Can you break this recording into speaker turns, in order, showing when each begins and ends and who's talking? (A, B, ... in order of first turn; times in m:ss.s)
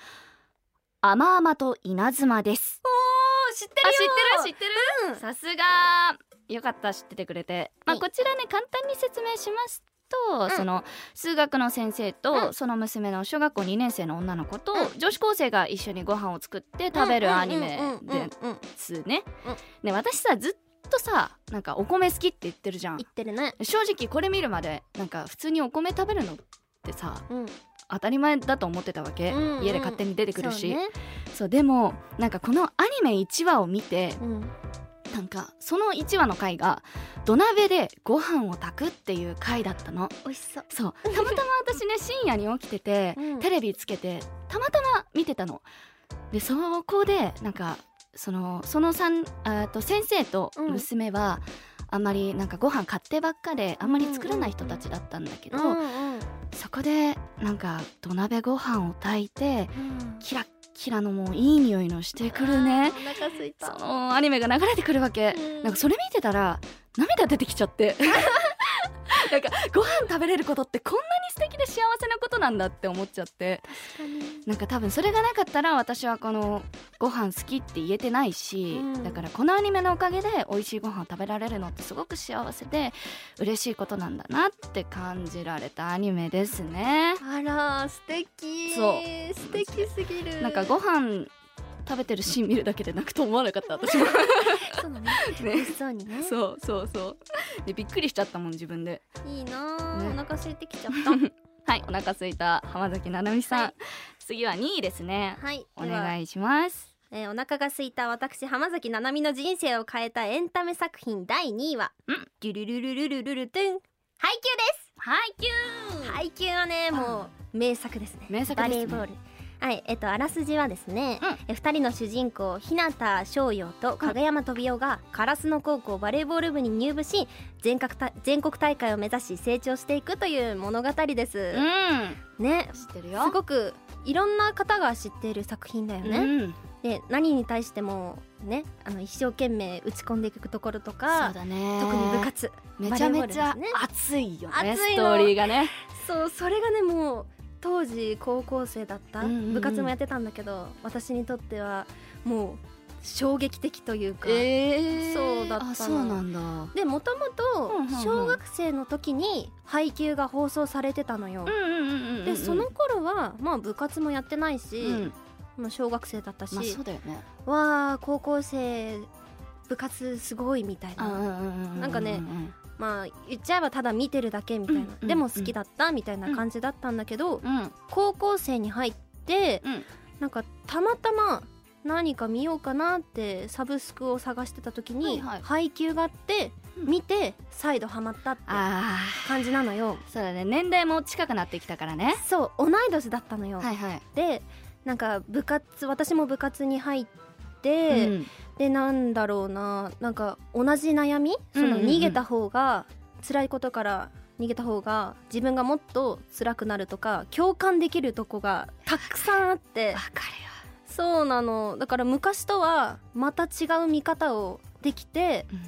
0:01.0-0:02.8 A
0:02.8-0:05.2 B
0:03.8-0:19.3 A
0:16.9-0:18.6 B
0:19.8-0:23.0 A
0:23.0-0:23.6 B
0:23.6-0:27.2 A
0:27.3-0:27.5 B
0:27.9-0:34.2 A
0:29.3-0:30.9 B
0:34.2-0:34.5 B
0:35.1-0:40.1 A
0:40.2-0:41.4 B
0:40.7-0:45.6 A
0:43.2-0:43.5 B
0:46.3-0:55.8 A
0:50.6-0:50.9 B
0:53.8-0:54.8 B
0:55.5-0:56.3 B
0:56.5-1:13.6 A
0:59.7-1:00.2 B
1:02.3-1:03.8 B
1:05.3-1:05.8 B
1:13.7-1:14.4 B
1:14.4-1:27.2 A
1:18.7-1:19.2 B
1:27.2-1:30.8 B
1:28.7-1:29.9 A
1:30.4-1:31.3 A
1:31.8-1:39.0 A
1:33.9-1:36.3 B
1:39.2-1:41.2 B
1:39.9-1:40.2 A
1:40.9-1:46.9 A
1:45.4-1:46.1 B
1:47.1-1:54.9 B
1:55.0-1:56.2 A
1:56.0-2:11.6 B
1:56.9-1:57.2 A
1:58.3-1:59.0 A
2:11.5-2:12.2 A
2:12.4-2:23.8 B
2:12.7-2:13.4 A
2:16.0-2:16.6 A
2:21.1-2:25.7 A
2:24.5-2:36.2 B
2:29.2-2:29.9 A
2:34.2-2:36.7 A
2:36.7-2:41.6 B
2:37.7-2:38.4 A
2:41.4-2:42.7 A
2:42.2-2:46.8 B
2:44.8-2:45.1 A
2:46.5-2:47.2 A
2:47.4-2:49.1 B
2:49.7-2:51.2 B
2:51.0-2:52.6 A
2:51.8-2:59.6 B
2:54.7-2:55.5 A
2:57.4-2:57.7 A
3:00.2-3:08.6 B
3:05.0-3:05.4 A
3:08.5-3:12.2 A
3:09.2-3:10.0 B
3:12.2-3:17.1 B
3:13.6-3:14.0 A
3:17.6-3:30.0 B
3:17.9-3:18.3 A
3:21.5-3:22.2 A
3:29.9-3:30.6 A
3:30.9-3:35.5 B